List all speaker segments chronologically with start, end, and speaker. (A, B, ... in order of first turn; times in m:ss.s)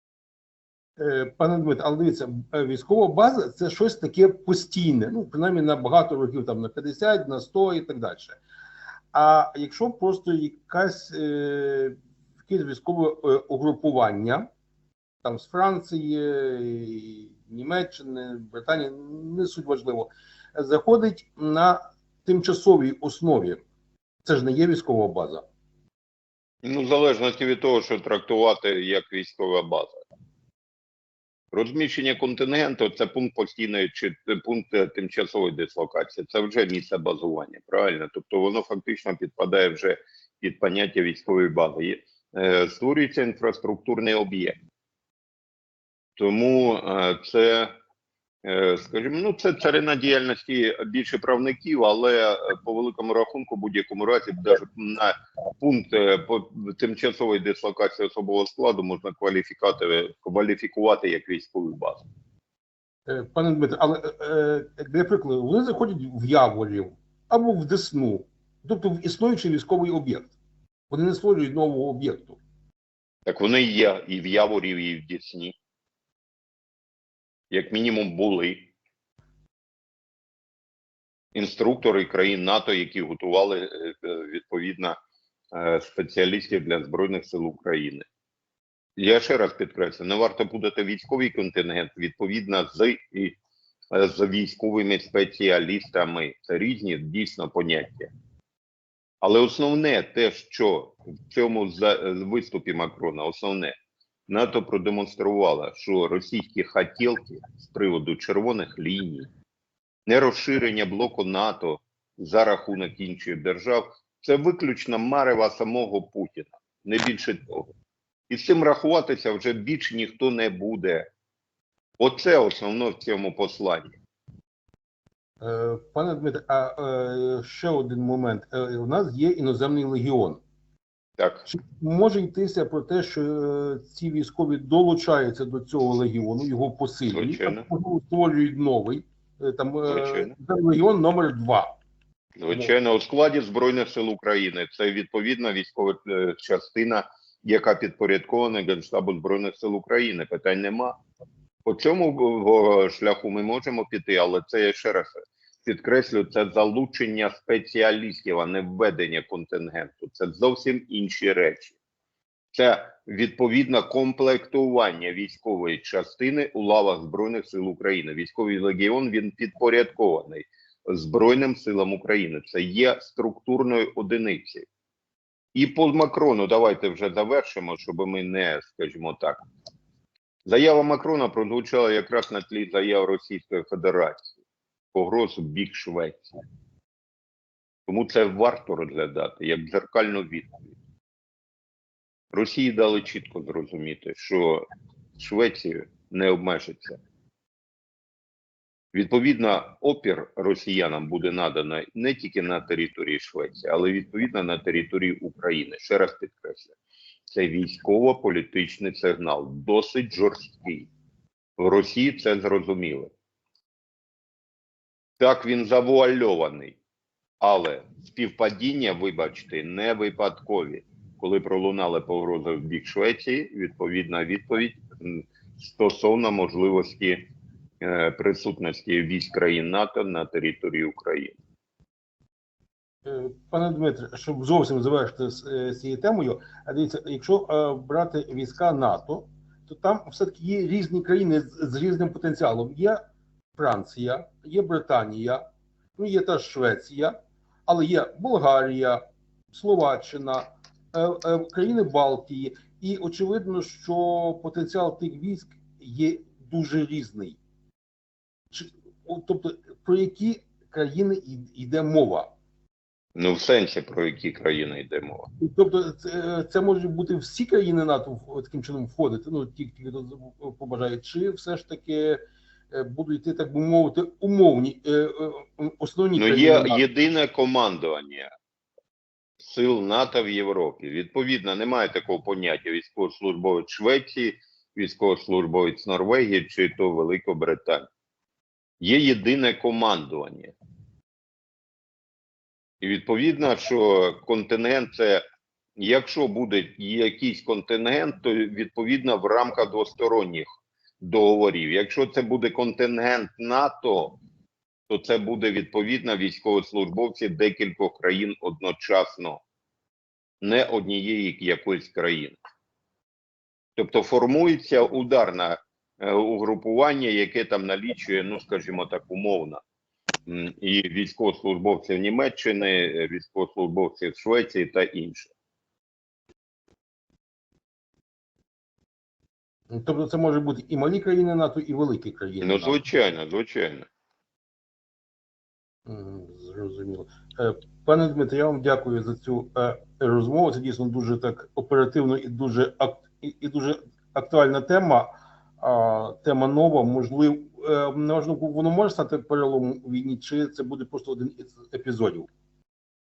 0:01.0-0:08.4 A
0:09.1-0:14.5 A
0:15.2-0:23.6 A
0:24.2-0:25.4 A
0:26.6-0:30.0 B
0:31.5-0:44.6 B
0:46.2-0:47.7 B
0:48.4-1:02.0 B
1:03.1-1:10.3 A
1:10.9-1:12.4 A
1:13.2-1:15.5 B
1:17.5-1:18.7 B
1:21.3-1:25.0 B
1:25.5-1:28.0 B
1:29.0-1:33.4 B
1:33.9-1:38.1 B
1:39.2-1:43.7 B
1:44.3-1:49.3 B
1:50.1-1:57.7 B
1:58.3-2:01.1 B
2:02.0-2:03.9 B
2:05.4-2:10.4 A
2:11.2-2:11.5 B
2:11.5-2:21.7 A
2:17.1-2:17.6 B
2:19.9-2:20.3 B
2:22.4-2:31.0 B
2:31.6-2:41.8 B
2:42.5-2:54.6 B
2:55.5-2:59.4 B
3:00.4-3:04.3 B
3:04.9-3:06.4 B
3:07.9-3:10.7 B
3:12.3-3:14.6 B
3:15.2-3:17.0 B
3:18.9-3:26.7 B
3:27.3-3:30.9 B
3:31.6-3:33.1 B
3:35.2-3:36.8 B
3:37.4-3:47.2 B
3:47.8-3:51.4 B
3:53.0-4:03.0 A
4:03.5-4:05.4 A
4:06.0-4:09.0 A
4:09.5-4:17.4 A
4:18.5-4:22.3 A
4:23.2-4:25.3 B
4:25.4-4:32.2 A
4:32.7-4:36.8 A
4:36.2-4:38.3 B
4:39.4-4:47.8 B
4:48.8-4:50.5 B
4:52.8-4:55.2 B
4:55.8-5:00.5 B
5:01.0-5:04.2 B
5:04.9-5:09.4 B
5:10.4-5:12.4 B
5:13.8-5:19.6 B
5:20.3-5:25.3 B
5:29.7-5:32.8 A
5:32.4-5:33.9 B
5:35.8-5:52.3 A